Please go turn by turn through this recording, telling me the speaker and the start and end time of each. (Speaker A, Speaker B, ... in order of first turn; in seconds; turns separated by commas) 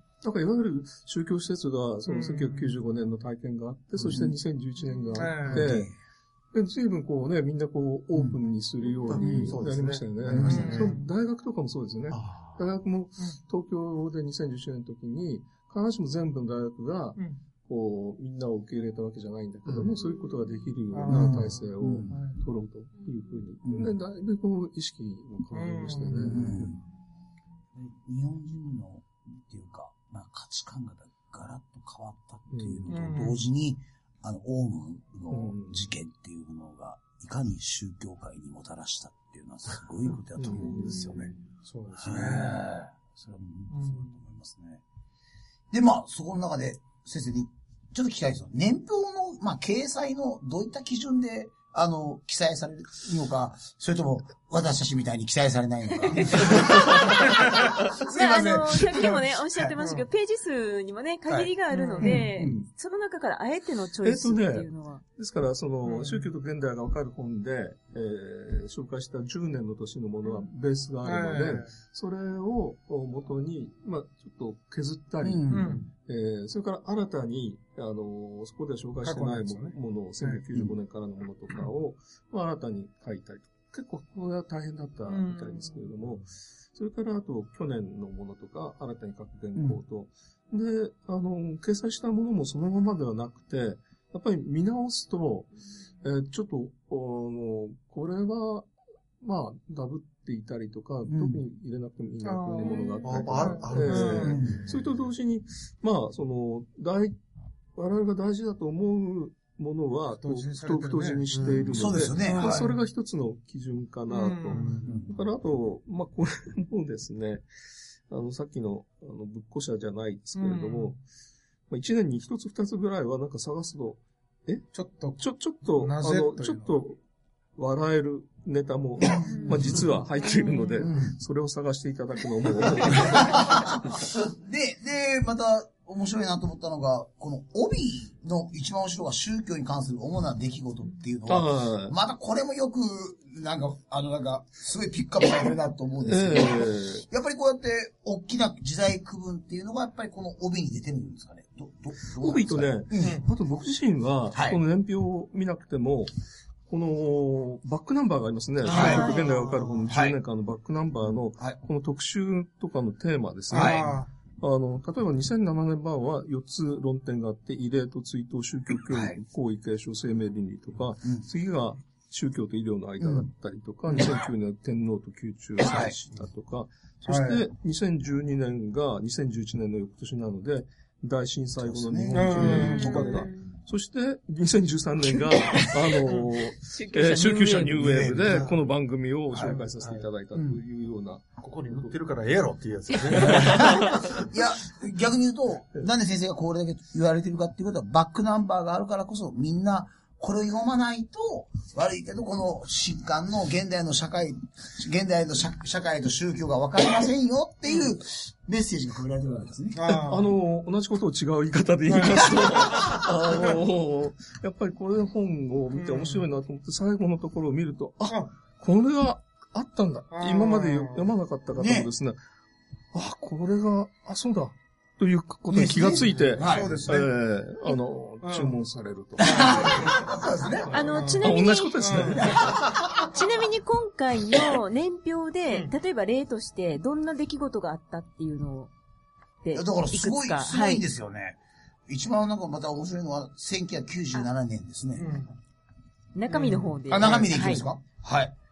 Speaker A: 0.2-5.9, Speaker B: 2.1-2.8, Speaker C: 4.0-4.3, Speaker B: 5.1-5.8, Speaker C: 5.5-6.0, Speaker A: 6.5-26.8, Speaker D: 9.1-11.0, Speaker C: 9.1-9.5, Speaker C: 10.2-10.8, Speaker B: 10.3-11.1, Speaker D: 12.1-12.7, Speaker E: 20.0-20.5, Speaker B: 20.9-22.4, Speaker C: 21.1-22.2, Speaker E: 23.0-23.4, Speaker C: 23.6-24.0, Speaker B: 25.5-26.5, Speaker C: 26.2-26.8, Speaker C: 27.8-41.3, Speaker A: 32.5-33.0, Speaker B: 32.9-33.4, Speaker A: 35.3-35.9, Speaker A: 40.4-41.4, Speaker E: 40.6-41.4, Speaker B: 41.6-42.7, Speaker C: 42.0-44.8, Speaker B: 43.7-44.1, Speaker C: 45.7-59.7, Speaker E: 56.1-57.4, Speaker B: 57.3-57.7, Speaker E: 57.9-65.0, Speaker B: 59.8-60.1, Speaker B: 61.3-62.3, Speaker A: 62.0-62.7, Speaker C: 62.4-62.6, Speaker A: 64.0-95.5, Speaker B: 65.8-66.3, Speaker B: 71.0-71.7, Speaker C: 75.2-75.8, Speaker B: 75.5-75.9, Speaker B: 79.0-80.4, Speaker B: 85.1-85.9, Speaker C: 89.5-89.8, Speaker A: 96.0-98.7, Speaker A: 99.2-107.2, Speaker C: 101.1-101.4, Speaker B: 102.2-104.5, Speaker E: 102.7-103.1, Speaker D: 103.0-104.8, Speaker C: 104.2-104.7, Speaker A: 107.8-117.5, Speaker B: 110.2-111.3, Speaker D: 111.3-112.1, Speaker C: 111.7-112.6, Speaker B: 112.3-112.8, Speaker B: 114.1-115.0, Speaker C: 114.8-115.2, Speaker A: 118.1-121.0, Speaker B: 120.4-121.0, Speaker A: 121.7-127.0, Speaker B: 124.7-126.8, Speaker A: 127.6-133.7, Speaker C: 129.1-129.8, Speaker E: 129.3-130.9, Speaker C: 130.8-131.2, Speaker C: 132.8-153.2, Speaker A: 141.3-142.0, Speaker A: 146.1-147.1, Speaker A: 152.2-156.1, Speaker B: 153.0-153.3, Speaker C: 154.3-154.6, Speaker A: 156.7-191.9, Speaker C: 158.6-159.1, Speaker E: 158.7-159.6, Speaker B: 158.7-159.2, Speaker D: 158.7-159.8, Speaker C: 159.9-160.2, Speaker C: 161.0-161.6, Speaker C: 163.5-164.0, Speaker B: 163.5-164.1, Speaker C: 168.8-169.2, Speaker C: 173.0-173.3, Speaker C: 175.6-176.0, Speaker B: 177.1-177.5, Speaker C: 181.6-183.0, Speaker B: 182.1-183.3, Speaker E: 182.5-183.6, Speaker E: 186.1-188.0, Speaker D: 187.8-188.6, Speaker C: 187.9-188.4, Speaker D: 189.3-190.1, Speaker C: 190.3-190.6, Speaker D: 191.4-194.3, Speaker B: 193.1-193.6, Speaker A: 193.2-193.9, Speaker C: 193.2-210.1, Speaker B: 209.7-210.3, Speaker A: 209.9-222.2, Speaker B: 211.9-213.6, Speaker B: 215.7-216.3, Speaker B: 218.1-218.3, Speaker B: 220.1-221.1, Speaker C: 221.6-221.9, Speaker A: 222.9-230.1, Speaker C: 225.5-226.9, Speaker B: 226.0-227.1, Speaker B: 228.2-228.6, Speaker C: 229.2-230.9, Speaker B: 229.2-230.1, Speaker E: 230.7-238.7, Speaker B: 230.8-232.3, Speaker A: 231.1-232.6, Speaker C: 232.2-233.1, Speaker B: 235.5-235.7, Speaker E: 239.4-240.8, Speaker C: 239.5-245.2, Speaker B: 245.0-245.3, Speaker E: 246.1-247.7, Speaker B: 246.3-247.3, Speaker C: 246.9-248.3